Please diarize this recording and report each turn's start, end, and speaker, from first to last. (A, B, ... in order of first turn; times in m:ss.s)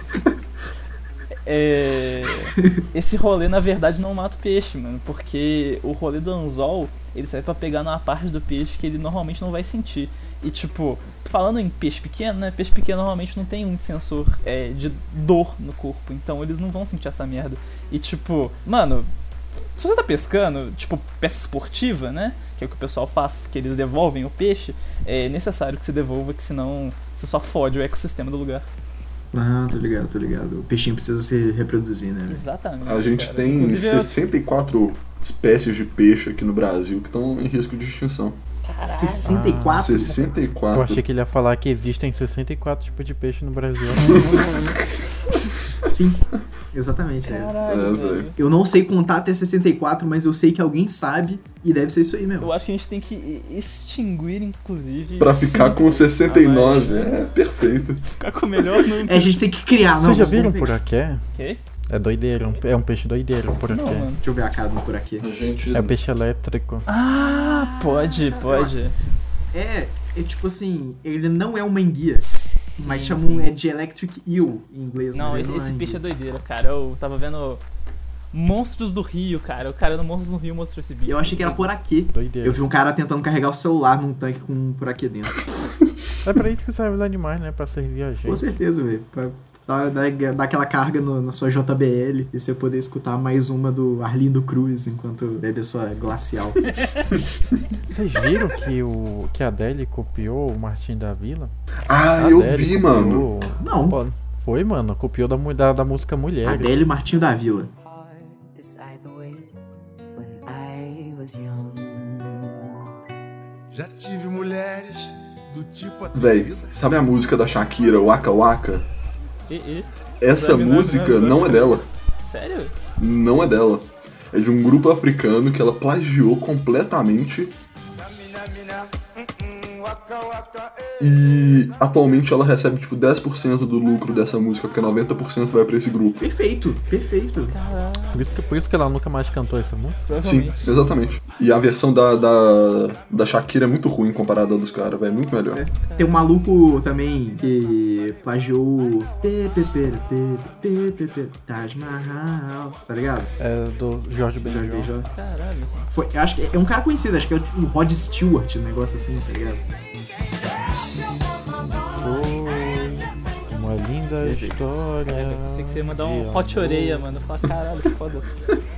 0:01.5-0:19.1 A
0:19.8-0:28.6 A
0:29.3-0:32.4 B
0:32.3-0:34.1 A
0:32.8-0:38.4 C
0:38.6-0:39.5 A
0:38.8-0:40.4 B
0:39.2-0:40.0 D
0:39.7-0:41.0 C
0:40.7-0:44.3 D
0:45.8-0:47.6 B
0:47.2-0:48.4 A
0:47.7-0:48.3 C
0:48.4-0:52.5 B
0:52.4-0:57.3 A
0:55.2-0:58.0 C
0:58.1-0:59.3 A
0:59.0-1:00.7 B
0:59.9-1:01.2 D
1:01.4-1:01.6 A
1:01.9-1:04.1 D
1:03.7-1:04.2 A
1:04.2-1:05.3 B
1:05.2-1:06.0 C
1:05.7-1:06.9 D
1:06.9-1:09.0 A
1:07.6-1:08.8 B
1:09.5-1:12.2 B
1:12.2-1:13.5 A
1:12.8-1:16.0 B
1:15.1-1:17.6 A
1:18.3-1:21.7 A
1:21.0-1:25.4 B
1:22.1-1:22.6 D
1:26.2-1:28.5 D
1:28.2-1:36.9 B
1:37.9-1:41.5 D
1:41.9-1:43.3 C
1:42.1-1:46.8 D
1:43.6-1:44.0 B
1:46.4-1:47.7 B
1:47.8-1:49.6 E
1:50.2-1:52.7 E
1:53.7-1:56.8 F
1:56.1-1:58.9 C
1:59.5-2:02.7 A
2:00.2-2:01.9 C
2:03.0-2:07.5 C
2:08.0-2:10.9 F
2:11.0-2:16.2 C
2:16.2-2:17.6 B
2:17.5-2:18.3 A
2:18.1-2:20.1 D
2:20.1-2:20.7 A
2:20.2-2:25.6 C
2:25.5-2:33.3 B
2:25.8-2:26.2 A
2:33.4-2:34.9 D
2:34.4-2:35.1 B
2:35.0-2:35.9 A
2:35.9-2:39.7 B
2:41.5-2:47.1 D
2:44.2-2:44.6 B
2:45.1-2:48.3 A